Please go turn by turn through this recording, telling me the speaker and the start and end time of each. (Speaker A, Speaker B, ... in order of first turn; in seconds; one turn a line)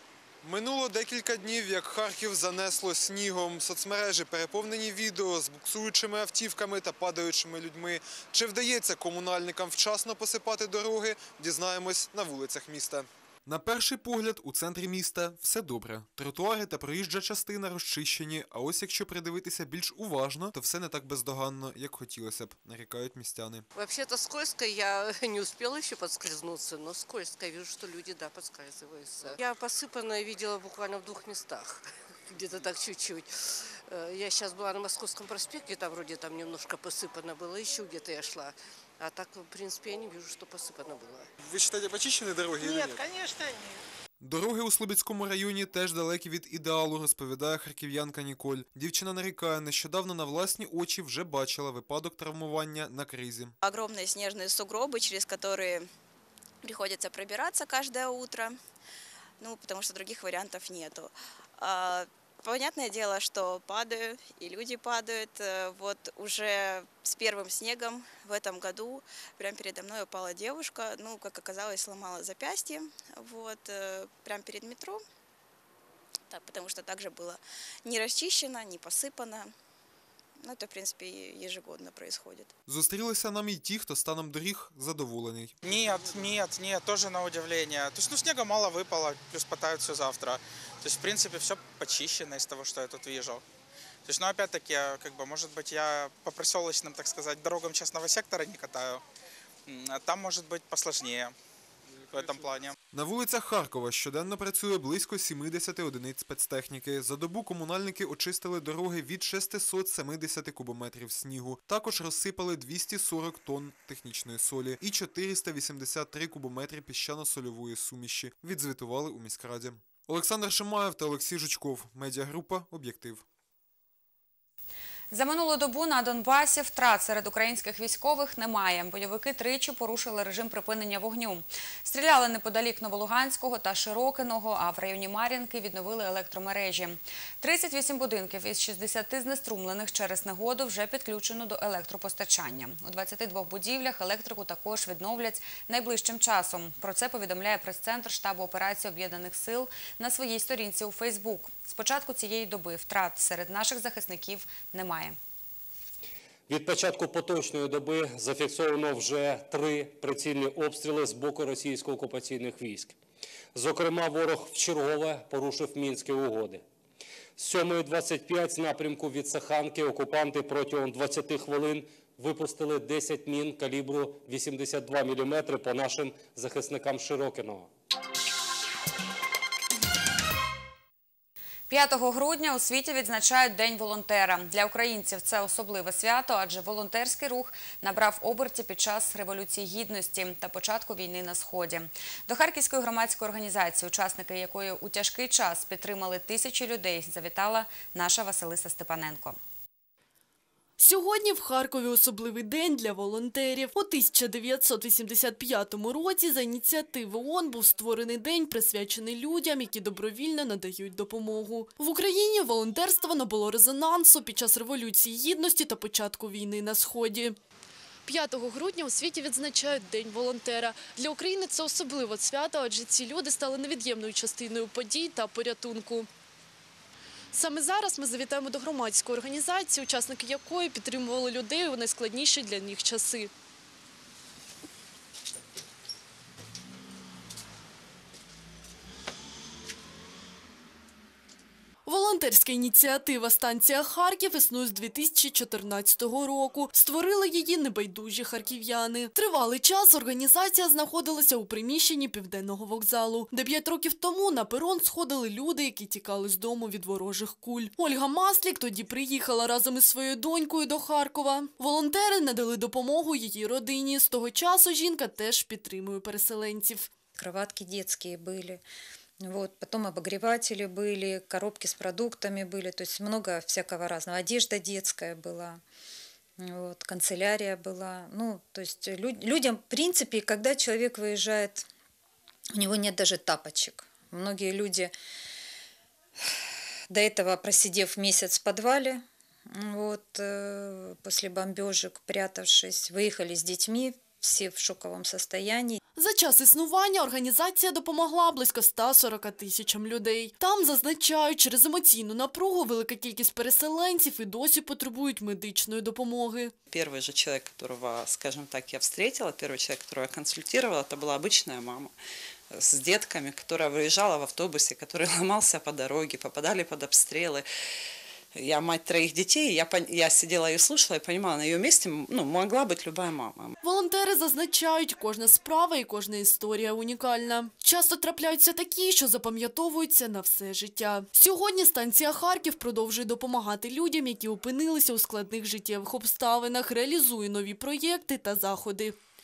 Speaker A: 0.4-23.6
Speaker B: 23.7-33.3
Speaker B: 33.9-41.3
Speaker A: 41.4-43.0
Speaker A: 44.2-53.5
Speaker C: 53.6-55.9
Speaker C: 56.6-58.6
Speaker C: 59.4-75.0
Speaker C: 76.3-79.5
Speaker C: 80.4-82.5
Speaker A: 82.7-85.6
Speaker D: 85.6-93.4
Speaker D: 94.0-99.0
Speaker D: 99.7-101.3
Speaker D: 102.1-102.7
Speaker A: 102.9-123.2
Speaker E: 125.1-155.2
Speaker F: 156.5-162.9
Speaker F: 163.5-166.6
Speaker F: 167.4-177.7
Speaker E: 181.7-199.4
Speaker G: 200.8-217.3
Speaker G: 218.1-226.1
Speaker G: 227.3-233.3
Speaker G: 241.8-266.9
Speaker H: 267.1-268.6
Speaker H: 269.2-275.6
Speaker H: 276.4-281.7
Speaker H: 282.5-284.9
Speaker H: 286.2-295.8
Speaker G: 295.9-306.5
Speaker I: 306.7-311.9
Speaker I: 312.5-317.5
Speaker I: 318.3-323.6
Speaker G: 323.6-338.9